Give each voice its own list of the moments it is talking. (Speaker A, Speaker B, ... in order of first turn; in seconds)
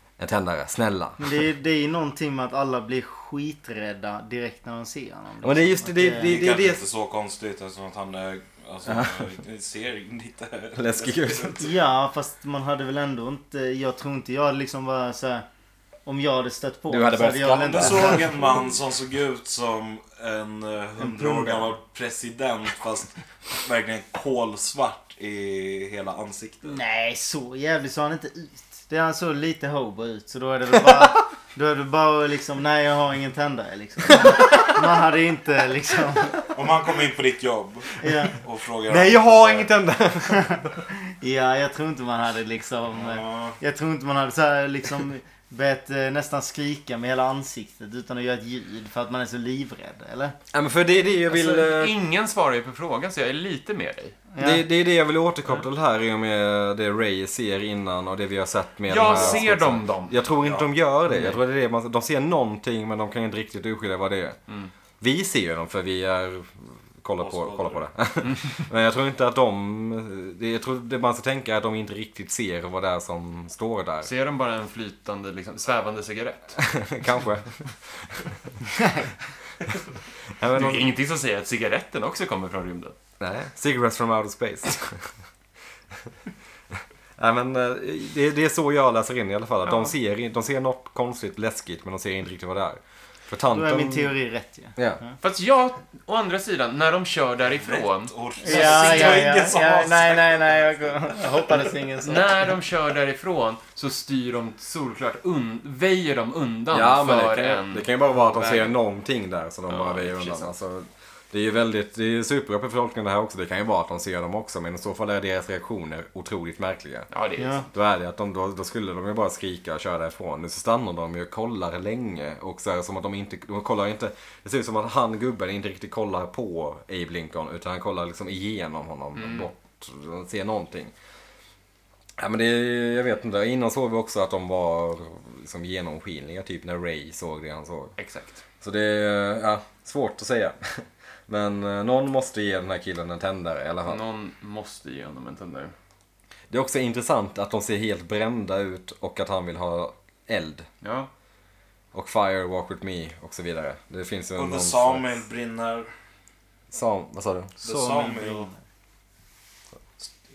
Speaker A: 0.2-1.4, 5.4-6.8, 8.8-9.2, 10.7-11.7, 16.9-18.4, 38.9-40.7, 50.5-51.9, 54.4-64.4, 65.0-74.1, 76.7-78.3, 80.4-80.9, 83.2-85.1, 87.2-94.1, 94.8-95.0, 106.7-117.1, 117.7-130.9, 132.2-137.9, 138.6-144.0, 146.5-150.7, 151.9-155.2, 156.7-157.5
Speaker B: 1.2-6.4, 11.6-15.4, 16.1-18.6, 21.0-21.7, 26.6-36.5, 38.0-38.3, 41.2-50.4, 54.3-54.6, 93.5-95.2, 98.4-102.4, 117.4-117.7, 157.6-158.6
Speaker C: 6.2-11.7, 17.5-26.8, 36.5-39.7, 42.9-43.6, 59.1-59.4, 60.4-60.7, 67.2-67.9, 97.6-100.7, 154.3-155.9, 157.6-158.5
Speaker D: 51.3-54.2, 58.9-60.1, 61.1-61.4, 74.0-76.7, 80.5-83.0, 95.2-99.1, 102.0-108.8, 109.7-110.5, 117.1-117.7, 129.2-129.5, 138.0-138.4, 143.8-145.7, 150.8-151.1